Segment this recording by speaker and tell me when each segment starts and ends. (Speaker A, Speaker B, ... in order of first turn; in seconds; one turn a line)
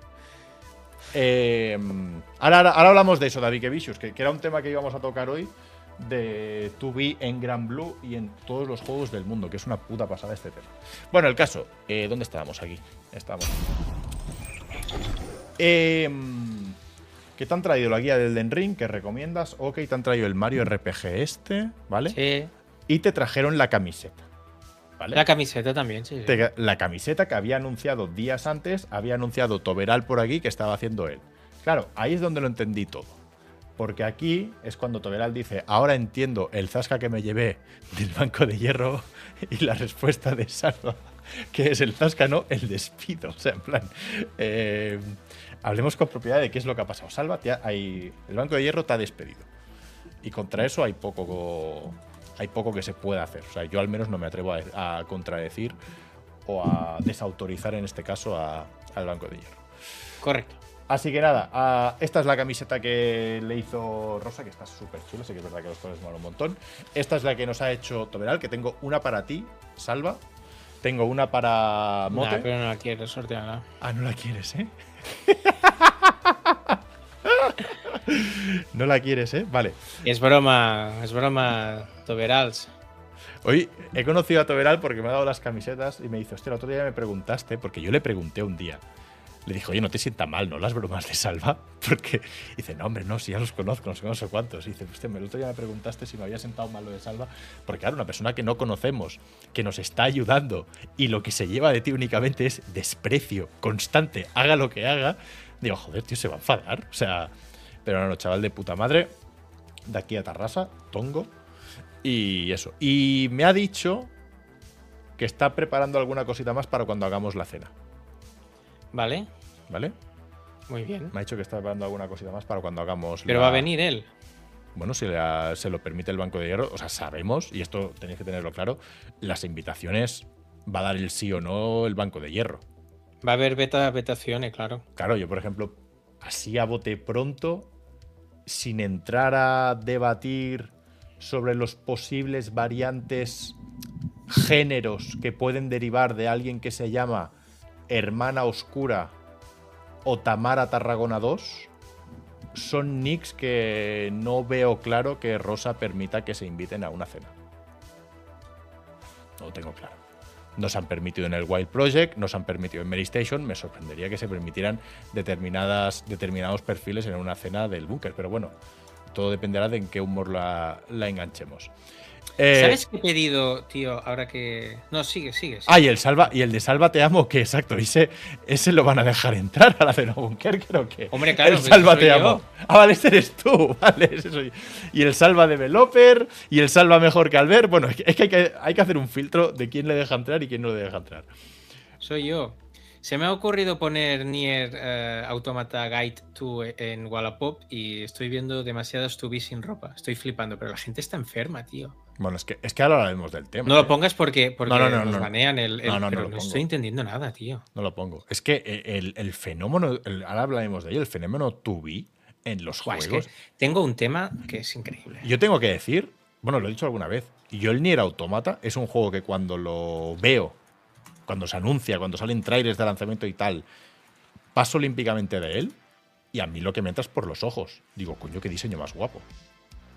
Speaker A: 1.1-13.6
Speaker A: 15.6-16.8
Speaker A: 17.4-22.2
Speaker B: 22.1-22.5
Speaker A: 22.9-24.3
Speaker A: 25.0-25.2
Speaker B: 25.1-26.4
Speaker A: 26.3-33.2
Speaker A: 33.8-49.5
Speaker A: 50.2-55.8
Speaker A: 56.5-59.6
Speaker B: 60.2-60.6
Speaker A: 60.9-70.2
Speaker A: 70.8-72.5
Speaker B: 72.1-73.7
Speaker A: 73.8-79.8
Speaker B: 80.0-82.7
Speaker A: 83.4-88.8
Speaker A: 89.5-107.3
Speaker A: 107.8-109.1
Speaker A: 109.9-111.3
Speaker A: 112.0-114.1
Speaker A: 115.2-117.7
Speaker B: 118.9-119.3
Speaker A: 119.7-120.0
Speaker B: 120.7-121.2
Speaker A: 121.1-123.7
Speaker B: 123.3-124.1
Speaker A: 124.8-132.6
Speaker B: 133.2-134.8
Speaker A: 135.0-137.7
Speaker A: 138.5-143.6
Speaker A: 144.3-147.3
Speaker A: 147.9-149.1
Speaker A: 150.0-151.7
Speaker A: 152.5-157.3
Speaker A: 159.4-160.0
Speaker A: 160.6-168.6
Speaker A: 169.1-171.7
Speaker A: 172.4-172.8
Speaker B: 172.5-175.8
Speaker A: 175.7-191.3
Speaker B: 181.1-182.4
Speaker B: 192.0-202.0
Speaker A: 202.2-204.0
Speaker B: 203.7-207.7
Speaker A: 204.7-206.7
Speaker A: 207.8-213.3
Speaker B: 212.8-215.3
Speaker A: 215.2-220.6
Speaker A: 221.3-223.7
Speaker A: 224.6-225.8
Speaker A: 226.3-229.3